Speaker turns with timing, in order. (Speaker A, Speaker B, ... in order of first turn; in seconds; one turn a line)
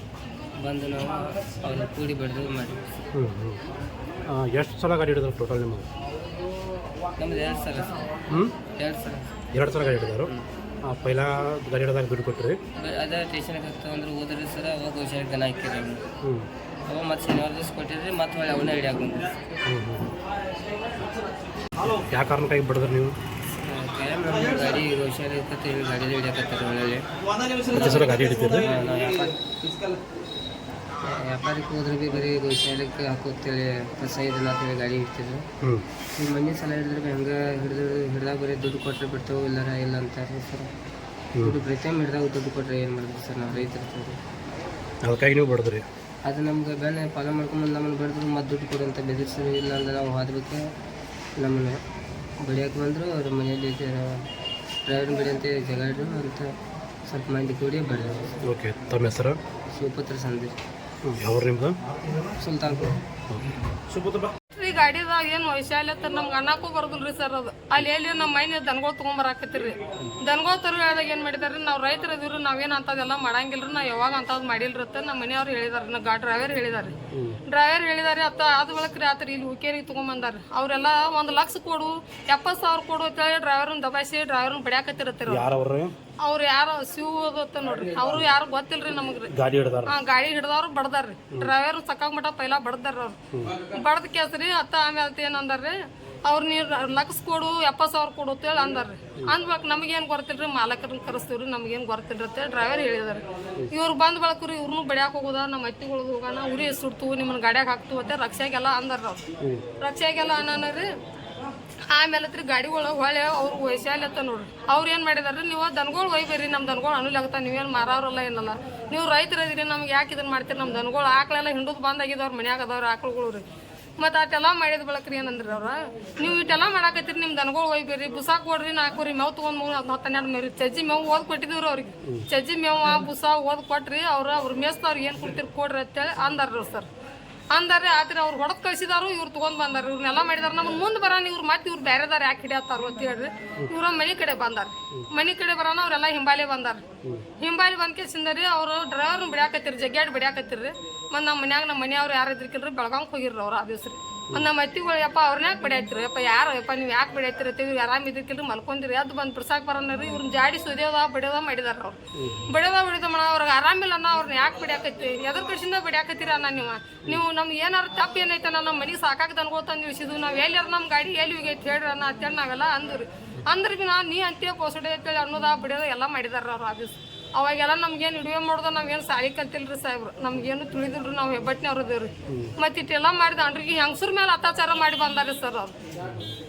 Speaker A: 0.6-2.9
Speaker B: 3.1-3.6
Speaker B: 4.3-5.9
Speaker A: 7.2-8.1
Speaker A: 8.7-9.2
Speaker B: 9.5-10.3
Speaker B: 10.9-12.6
Speaker A: 12.8-16.0
Speaker B: 16.2-16.5
Speaker A: 16.9-19.4
Speaker B: 19.7-20.1
Speaker B: 21.8-23.1
Speaker A: 23.6-27.0
Speaker B: 27.7-28.7
Speaker A: 27.7-29.9
Speaker A: 31.0-35.4
Speaker A: 36.2-40.7
Speaker A: 41.4-44.2
Speaker B: 45.0-45.8
Speaker A: 46.3-50.6
Speaker A: 51.4-51.8
Speaker A: 52.4-54.2
Speaker A: 54.9-56.5
Speaker A: 57.1-58.4
Speaker B: 58.5-59.4
Speaker A: 59.7-60.6
Speaker B: 61.0-61.8
Speaker A: 62.4-63.0
Speaker B: 63.3-64.3
Speaker C: 64.5-77.0
Speaker B: 77.1-77.4
Speaker C: 77.5-85.5
Speaker B: 85.3-85.9
Speaker C: 86.2-89.3
Speaker B: 89.3-90.0
Speaker C: 89.8-109.2
Speaker C: 109.8-110.8
Speaker C: 111.9-123.4
Speaker C: 124.0-136.9
Speaker C: 137.5-146.8
Speaker C: 147.4-185.8
Speaker B: 162.2-162.5
Speaker B: 186.0-186.3